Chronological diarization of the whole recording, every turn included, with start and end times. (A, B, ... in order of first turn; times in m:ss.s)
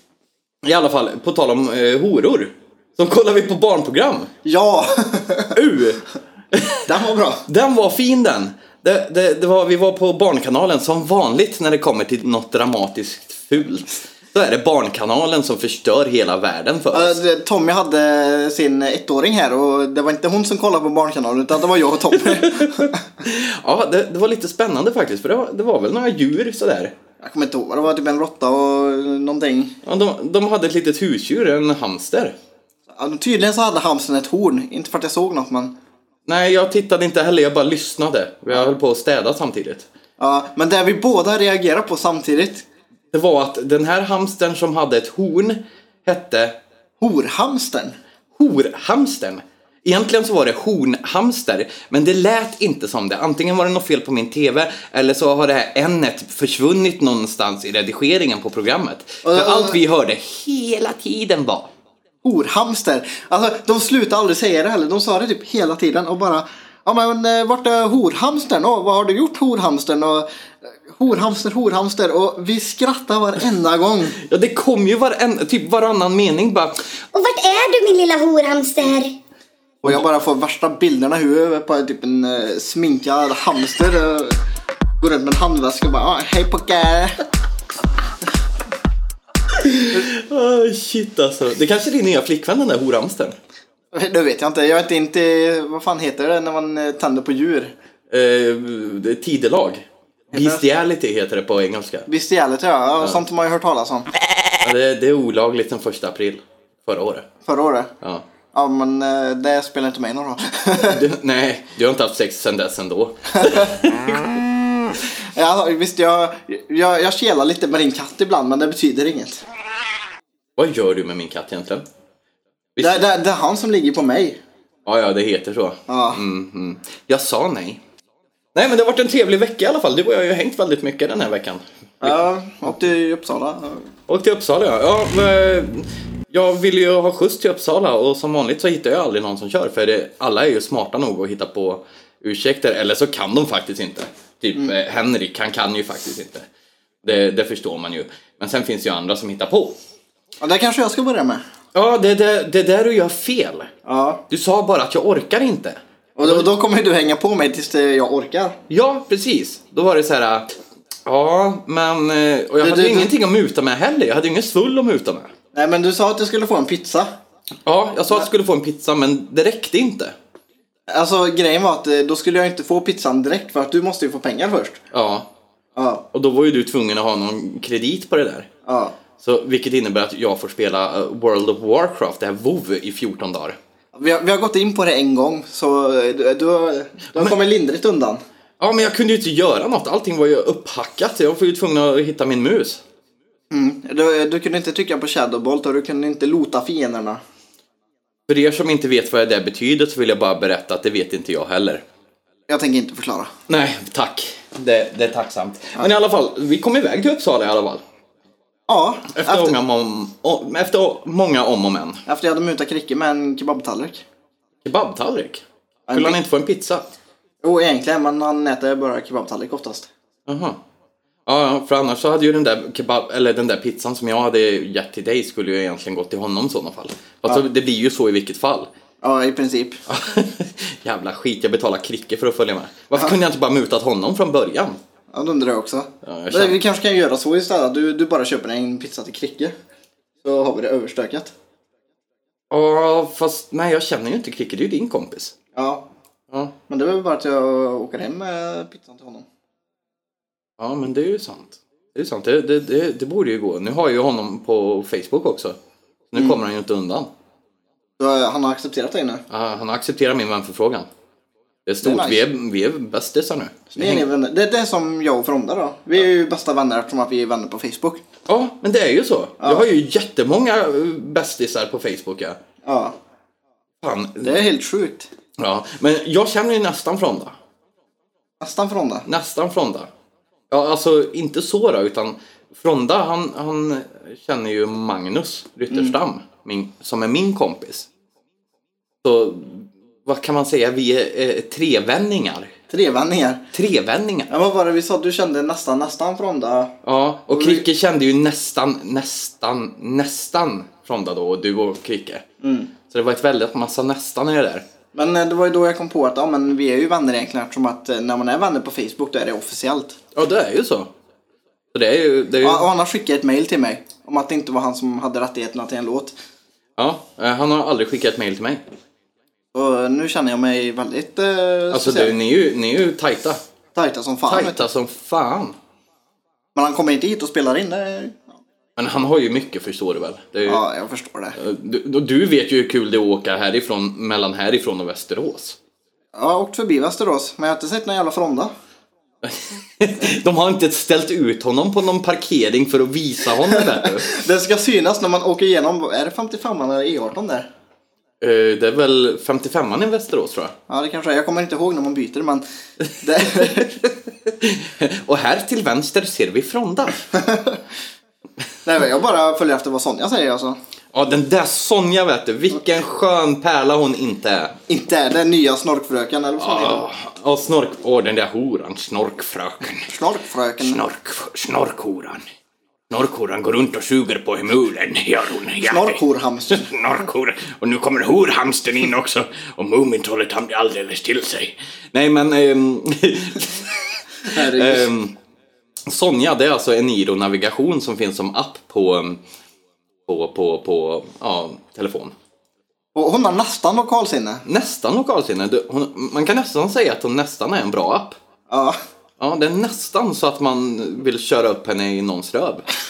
0:00.6-0:04.3 A
0:04.4-0:05.6 B
0:05.5-0:06.8 A
0:06.8-0:07.4 B
0:07.4-0:17.2 A
0:16.9-0:23.0 B
0:22.1-0:26.9 A
0:27.2-0:29.8 B
0:29.8-0:32.3 A
0:32.9-0:35.7 B
0:36.2-0:39.9 A
0:40.2-0:42.6 B
0:43.1-0:46.6 A
0:47.0-0:48.0 B
0:48.3-1:01.7 A
0:59.2-0:59.8 B
1:02.2-1:14.2 B
1:14.2-1:16.9 A
1:17.1-1:19.1 C
1:19.8-1:24.4 B
1:25.0-1:27.2 B
1:29.5-1:33.4 A
1:33.9-1:37.7 B
1:38.1-1:42.1 A
1:40.3-1:40.6 B
1:42.1-1:44.1 B
1:44.6-1:47.3 A
1:47.4-1:47.9 B
1:48.5-1:51.0 B
1:50.8-1:54.4 A
1:55.2-1:59.4 B
2:00.6-2:01.8 A
2:02.8-2:03.0 A
2:02.8-2:04.4 B
2:04.8-2:07.8 A
2:05.9-2:06.2 B
2:08.5-2:12.2 A
2:12.0-2:13.9 B
2:14.1-2:26.4 A
2:27.0-2:29.8 A
2:30.4-2:31.4 B
2:31.7-2:33.7 A
2:33.8-2:34.2 B
2:34.3-2:36.5 A
2:36.2-2:38.6 B
2:38.7-2:40.5 A
2:41.0-2:45.3 A
2:42.6-2:43.1 B
2:45.5-2:47.2 B
2:47.6-2:50.1 A
2:50.9-2:54.8 B
2:54.9-2:55.3 A
2:55.8-2:56.0 B
2:56.1-2:58.5 A
2:58.6-2:59.0 B
2:59.2-3:03.6 A
3:03.9-3:08.2 B
3:08.6-3:12.8 A
3:13.5-3:17.2 B
3:18.3-3:21.8 A
3:22.5-3:23.3 B
3:23.5-3:27.8 A
3:28.7-3:29.6 B
3:29.1-3:32.0 A
3:32.1-3:34.0 B
3:34.6-3:36.9 A
3:35.9-3:36.2 B
3:37.4-3:39.9 B
3:40.3-3:40.6 A
3:41.2-3:48.7 A
3:49.0-3:49.8 B
3:49.9-3:54.8 A
3:55.1-3:59.5 B
3:56.0-3:56.6 A
4:00.2-4:01.3 B
4:02.5-4:05.3 A
4:05.5-4:05.8 B
4:06.7-4:09.2 B
4:10.6-4:15.6 A
4:16.1-4:17.1 A
4:18.0-4:19.2 B
4:19.3-4:20.9 A
4:21.6-4:24.0 A
4:21.8-4:22.2 B
4:23.7-4:28.0 B
4:28.3-4:32.4 A
4:29.4-4:29.6 B
4:32.6-4:32.9 B
4:33.8-4:34.4 A
4:34.2-4:35.1 B
4:35.4-4:37.3 A
4:38.4-4:39.0 B
4:39.0-4:39.9 A
4:40.5-4:47.9 A
4:45.7-4:46.0 B
4:49.0-4:52.5 A
4:52.7-4:53.4 B
4:53.5-4:54.3 A
4:54.3-4:56.8 B
4:56.8-5:02.2 A
4:57.3-4:57.6 B
5:02.4-5:02.7 B
5:02.9-5:04.6 A
5:04.9-5:10.0 B
5:10.1-5:10.9 A
5:11.7-5:12.6 A
5:12.4-5:16.1 B
5:16.8-5:18.6 A
5:19.5-5:22.1 B
5:21.7-5:23.4 A
5:23.7-5:24.6 B
5:24.3-5:25.6 A
5:26.5-5:28.4 B
5:28.8-5:30.6 A
5:30.4-5:31.4 B
5:31.3-5:35.6 A
5:36.1-5:38.5 B
5:39.2-5:44.2 A
5:43.5-5:47.5 B
5:48.2-5:50.5 A
5:50.7-5:52.4 B
5:53.0-5:53.9 B
5:53.4-5:53.6 A
5:54.2-5:57.1 A
5:57.1-5:57.6 B
5:58.6-6:00.6 B
6:00.9-6:04.6 A
6:04.7-6:06.9 B
6:06.4-6:09.9 A
6:09.9-6:10.8 B
6:10.6-6:12.2 A
6:12.9-6:25.2 A
6:15.6-6:16.7 B
6:24.3-6:24.9 B
6:25.8-6:29.2 A
6:30.1-6:32.1 A
6:32.9-6:34.4 B
6:34.4-6:38.2 A
6:38.5-6:38.8 B
6:39.2-6:42.6 A